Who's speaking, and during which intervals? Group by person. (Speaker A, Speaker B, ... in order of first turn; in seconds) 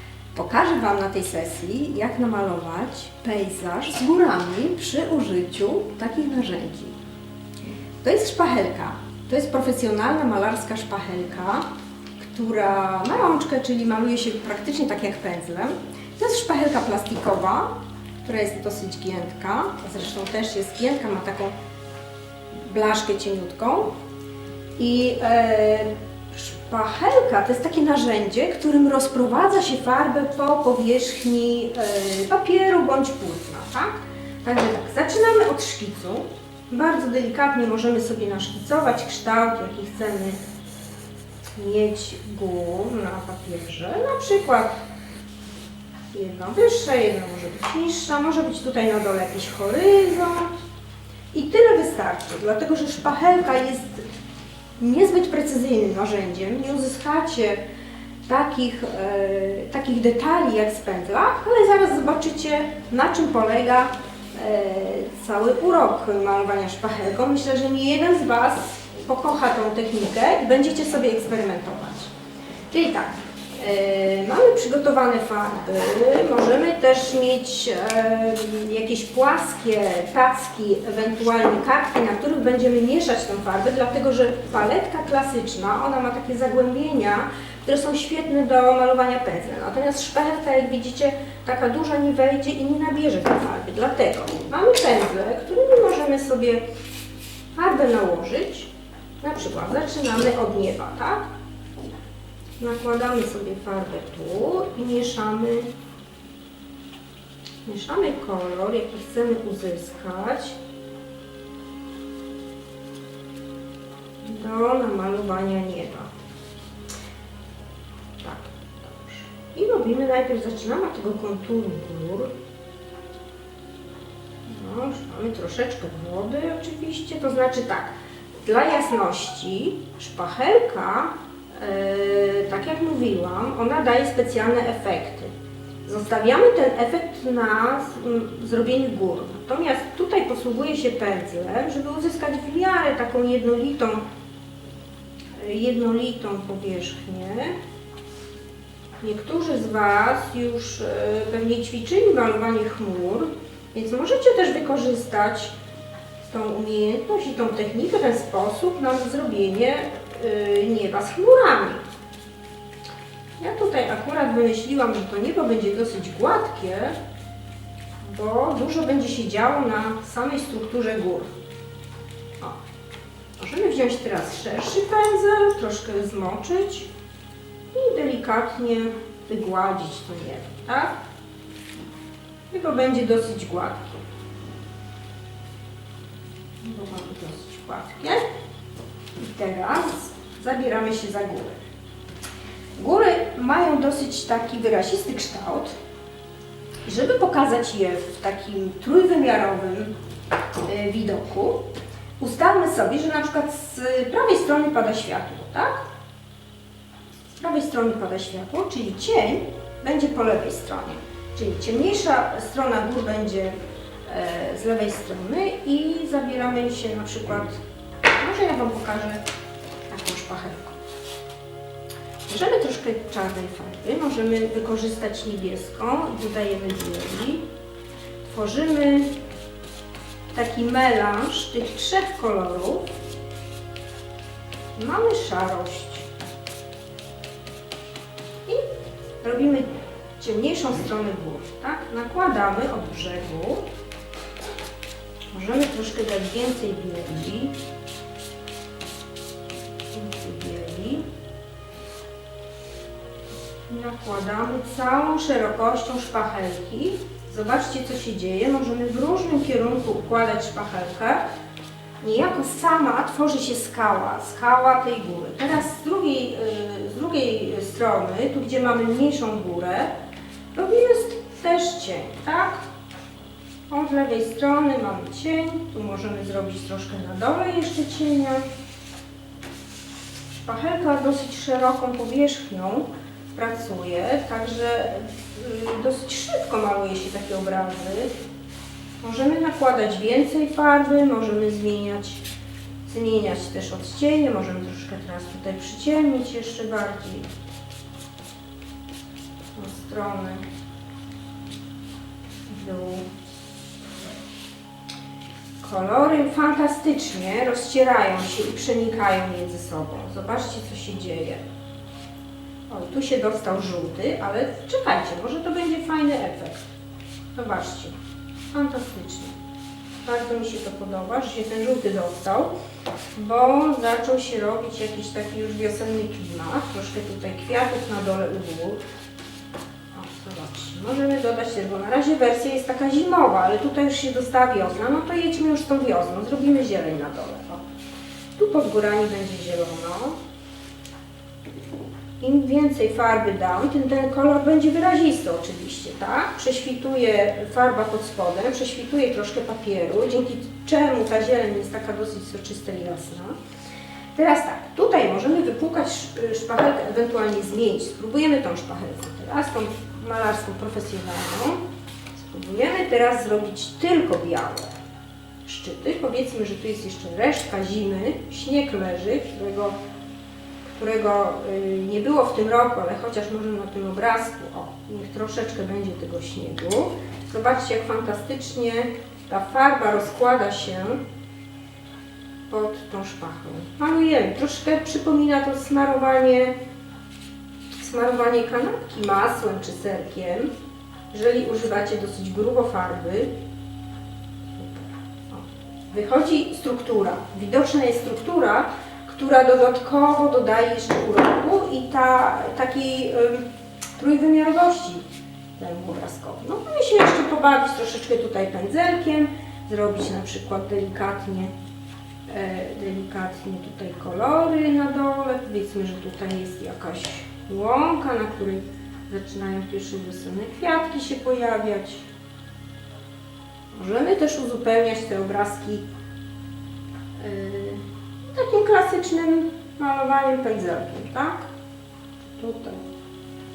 Speaker A: 0.3-7.0, 8.0-11.6, 12.2-17.7, 18.2-21.5, 22.5-23.9, 24.8-40.4, 41.5-44.8, 46.1-50.5, 51.3-54.0, 54.8-57.6, 58.2-72.1, 72.7-96.6, 97.5-98.7, 99.2-101.2, 102.6-105.7, 107.6-110.6, 114.2-116.1, 118.2-122.3, 124.5-135.3, 135.8-144.0, 145.3-147.5, 149.0-155.5, 156.2-161.8, 163.4-166.9, 168.0-171.3, 173.4-176.9, 177.7-180.9, 182.5-184.0, 186.6-188.2, 189.2-191.6, 192.8-195.7, 196.8-199.9, 200.7-201.6, 202.2-205.8, 207.3-217.6, 218.2-219.2, 219.9-220.7, 222.3-227.4, 228.2-229.1, 230.3-232.9, 234.7-236.1, 239.2-243.6, 245.3-247.5, 249.9-251.0, 253.7-261.2, 262.0-269.9, 270.5-272.6, 273.7-278.4, 280.3-288.1, 289.0-292.2, 292.8-297.3, 299.5-300.4, 302.5-303.1, 305.6-311.4, 312.7-316.7, 317.3-317.9, 318.5-319.3, 320.0-322.5, 323.1-328.8, 329.9-337.6, 338.4-340.2, 342.2-353.3, 354.1-361.6, 362.1-364.7, 365.4-369.8, 370.7-381.0, 382.5-386.5, 387.7-390.5, 391.1-393.3, 394.6-403.4, 404.0-405.0, 405.6-411.5, 412.3-422.1, 423.7-425.9, 427.2-431.5, 432.4-432.8